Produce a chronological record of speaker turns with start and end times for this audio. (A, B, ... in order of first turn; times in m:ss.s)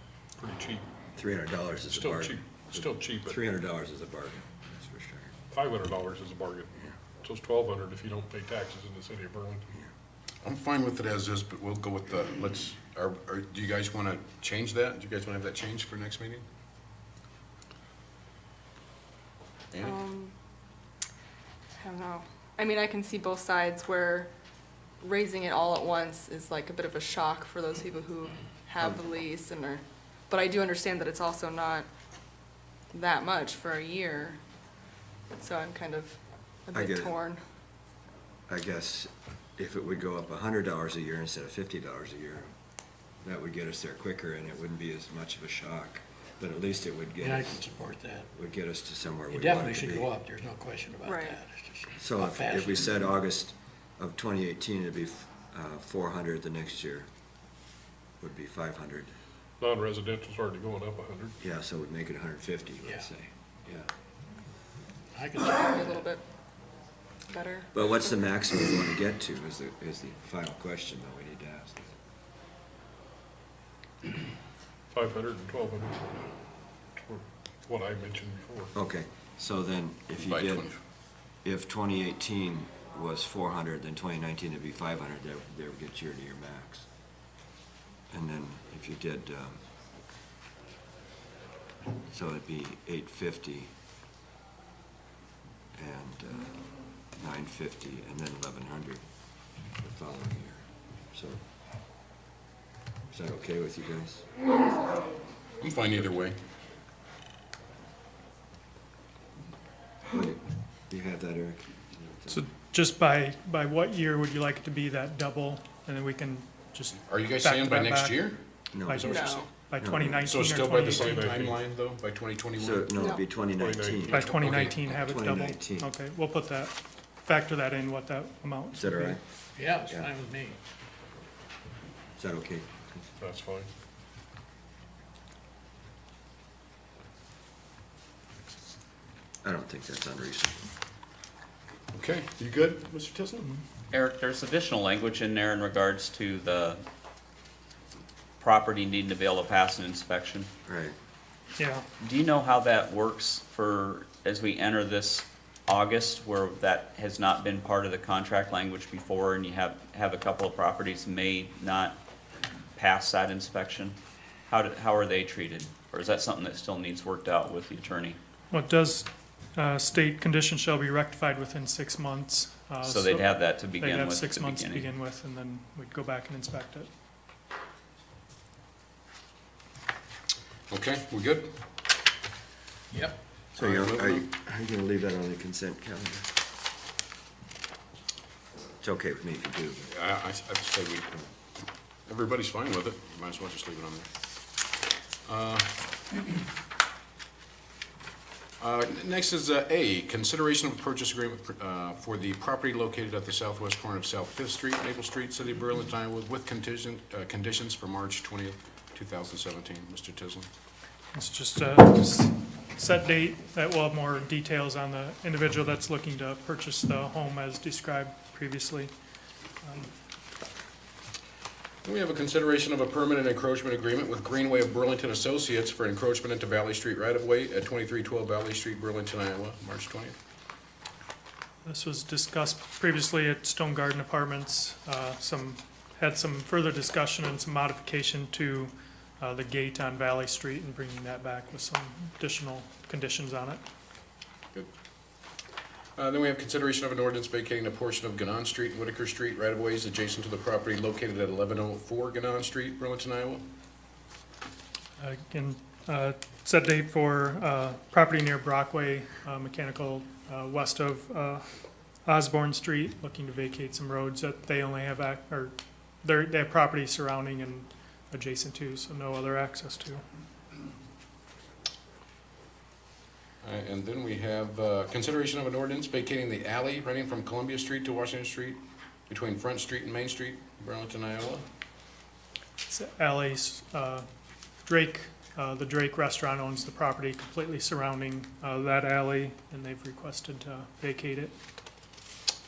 0:00.4-0:00.8 A
0:01.1-0:05.3 B
0:01.9-0:03.4 A
0:05.5-0:09.7 A
0:10.4-0:16.4 C
0:19.7-0:20.3 D
0:21.8-0:24.3 D
0:25.0-0:31.9 D
0:28.8-0:29.0 B
0:32.9-0:34.4 D
0:35.3-0:37.4 D
0:36.7-0:37.2 B
0:38.5-0:42.5 B
0:43.2-0:47.7 B
0:47.2-0:48.3 E
0:48.3-0:50.1 B
0:49.3-0:52.9 E
0:51.0-0:51.4 D
0:52.0-0:57.1 B
0:58.2-0:59.1 B
0:59.6-1:01.4 A
1:01.4-1:03.9 B
1:05.1-1:05.8 E
1:05.6-1:06.2 D
1:07.3-1:07.7 D
1:07.7-1:11.9 B
1:14.9-1:16.2 A
1:17.0-1:18.7 A
1:18.7-1:20.7 B
1:20.2-1:20.8 C
1:21.4-1:26.9 B
1:28.1-1:29.6 B
1:32.1-1:33.7 B
1:35.7-1:36.6 B
1:37.1-1:39.0 B
1:39.8-1:41.4 B
1:43.1-1:44.2 B
1:45.6-1:46.3 C
1:50.1-1:52.4 B
1:52.3-1:58.2 F
1:57.1-1:59.5 C
1:58.7-1:59.1 B
1:58.9-2:01.4 F
1:59.0-1:59.5 D
1:59.8-2:00.4 B
2:00.2-2:02.9 C
2:01.0-2:01.6 A
2:02.6-2:05.9 B
2:02.9-2:03.2 D
2:03.4-2:04.6 A
2:04.1-2:09.2 F
2:04.1-2:04.8 C
2:08.7-2:09.2 B
2:09.6-2:10.6 E
2:09.8-2:10.1 B
2:12.2-2:13.0 B
2:13.2-2:13.7 A
2:19.4-2:20.7 B
2:21.9-2:23.5 C
2:23.9-2:26.8 G
2:28.4-2:30.5 G
2:30.6-2:31.0 B
2:31.6-2:31.8 F
2:32.0-2:42.0 G
2:42.8-2:44.0 G
2:44.5-2:48.2 G
2:48.5-2:56.9 F
2:52.8-2:54.9 G
3:00.7-3:01.5 C
3:02.9-3:03.2 E
3:03.6-3:06.3 B
3:03.6-3:04.2 C
3:08.8-3:09.9 B
3:09.9-3:11.2 C
3:12.1-3:14.1 C
3:15.2-3:15.7 C
3:18.6-3:30.5 C
3:31.1-3:38.9 F
3:39.6-3:39.9 F
3:41.8-3:50.2 C
3:51.6-4:03.6 F
4:06.0-4:13.4 C
4:15.0-4:21.4 F
4:22.0-4:30.0 F
4:33.4-4:41.4 C
4:42.7-4:44.0 F
4:44.6-4:51.3 F